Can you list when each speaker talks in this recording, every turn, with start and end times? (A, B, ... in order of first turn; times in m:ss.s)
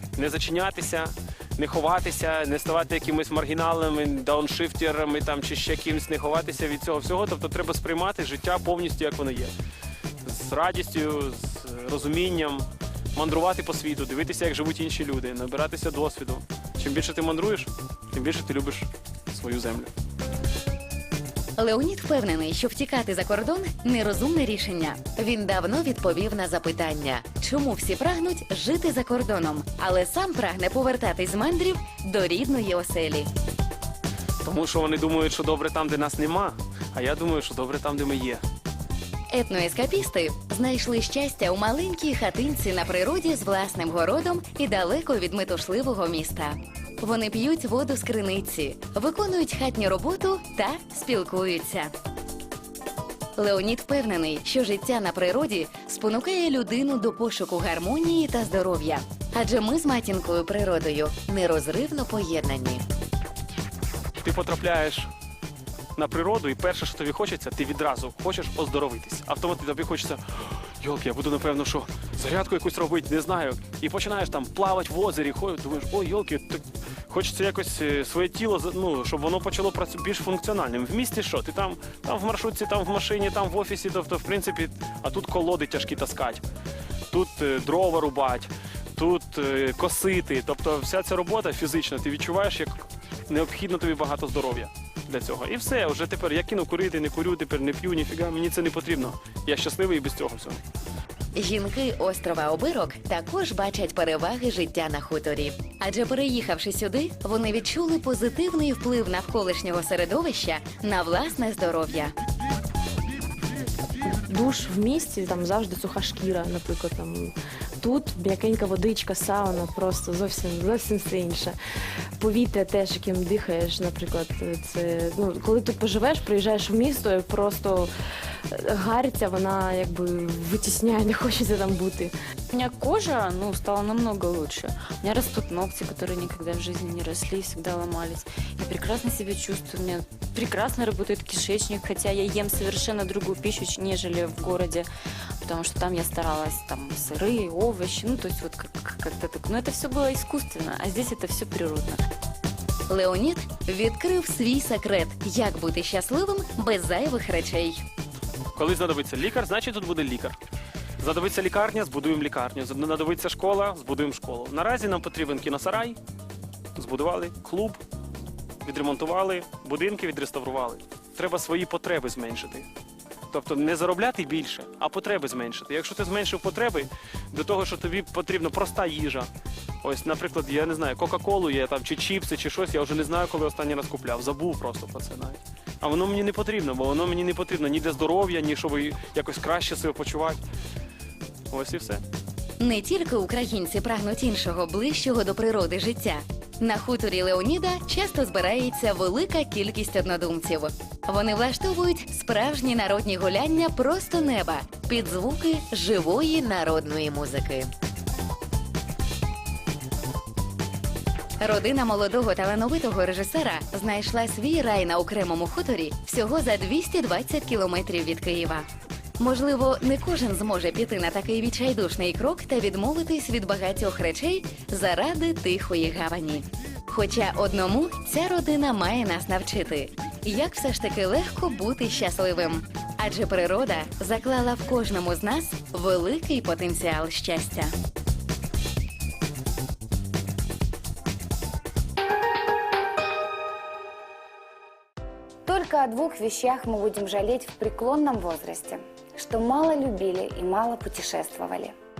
0:00.2-0:09.5 A
0:10.2-0:19.9 A
0:21.6-0:33.3 B
0:34.4-0:38.4 A
0:39.3-0:51.9 B
0:53.4-1:02.8 B
1:04.2-1:05.1 A
1:06.0-1:26.4 A
1:27.1-1:40.6 A
1:41.3-1:52.1 B
1:54.3-2:01.5 C
2:02.2-2:07.9 C
2:08.5-2:12.1 C
2:12.5-2:24.9 D
2:25.4-2:32.0 D
2:32.9-2:37.8 B
2:38.5-2:40.4 A
2:41.0-2:46.0 A
2:46.7-2:47.8 A
2:48.6-2:52.7 A
2:53.3-2:59.3 A
2:59.8-3:10.4 A
3:11.5-3:12.0 A
3:12.6-3:27.7 B
3:31.4-3:38.6 B
3:39.2-3:57.7 B
4:05.4-4:11.7 E